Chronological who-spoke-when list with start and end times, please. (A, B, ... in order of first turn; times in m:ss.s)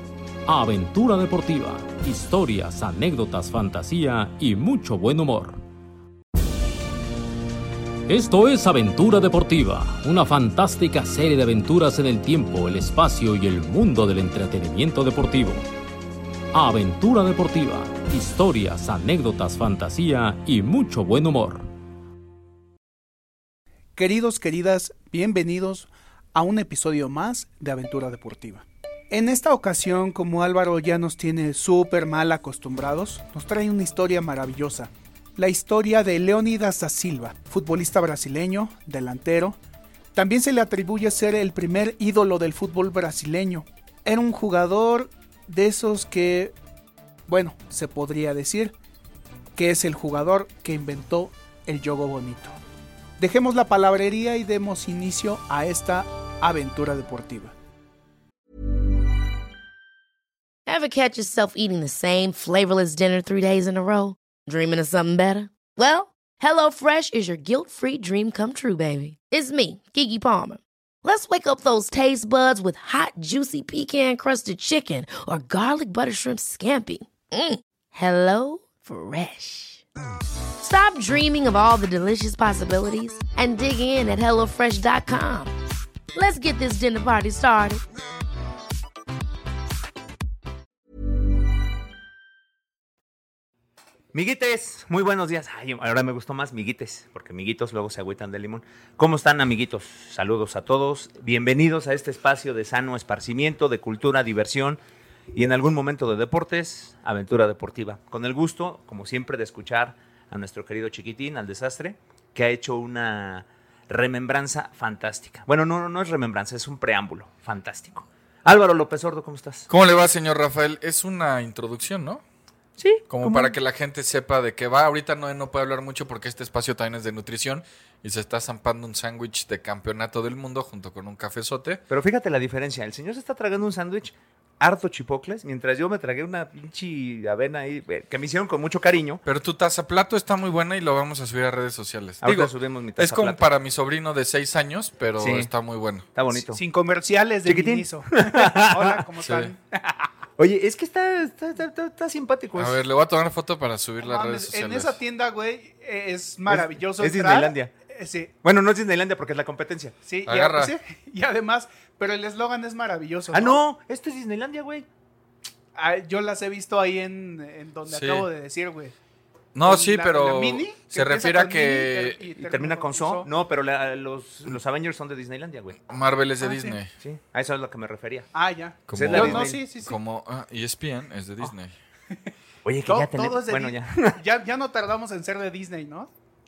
0:00.5-0:05.6 A
0:08.1-0:15.7 A
0:16.5-0:21.7 A
0:24.0-0:39.6 B
0:40.1-0:46.5 B
0:47.3-0:48.7 B
0:49.6-0:52.5 B
0:53.2-0:57.5 B
1:00.6-1:19.8 C
1:20.6-1:25.5 C
1:26.1-1:27.8 C
1:34.1-1:44.8 D
1:45.3-1:59.7 D
1:59.7-2:02.2 E
2:02.8-2:03.5 D
2:03.1-2:11.8 E
2:11.9-2:19.2 D
2:19.2-2:26.1 E
2:22.2-2:23.5 D
2:25.2-2:25.5 D
2:26.1-2:26.6 D
2:26.4-2:30.1 B
2:27.4-2:29.0 D
2:29.2-2:29.5 E
2:30.4-2:32.8 D
2:32.6-2:35.0 E
2:34.0-2:38.3 B
2:36.5-2:37.7 D
2:38.4-2:39.9 D
2:40.0-2:43.6 B
2:40.2-2:40.7 E
2:43.3-2:44.8 D
2:45.8-2:48.9 B
2:47.8-2:48.3 E
2:49.5-2:52.3 E
2:49.6-2:53.3 B
2:52.4-2:55.8 D
2:55.9-2:56.9 E
2:56.4-2:56.8 B
2:57.0-2:58.3 D
2:58.3-2:59.9 B
2:58.9-3:01.7 E
2:58.9-2:59.6 D
3:02.6-3:04.2 D
3:02.9-3:06.1 B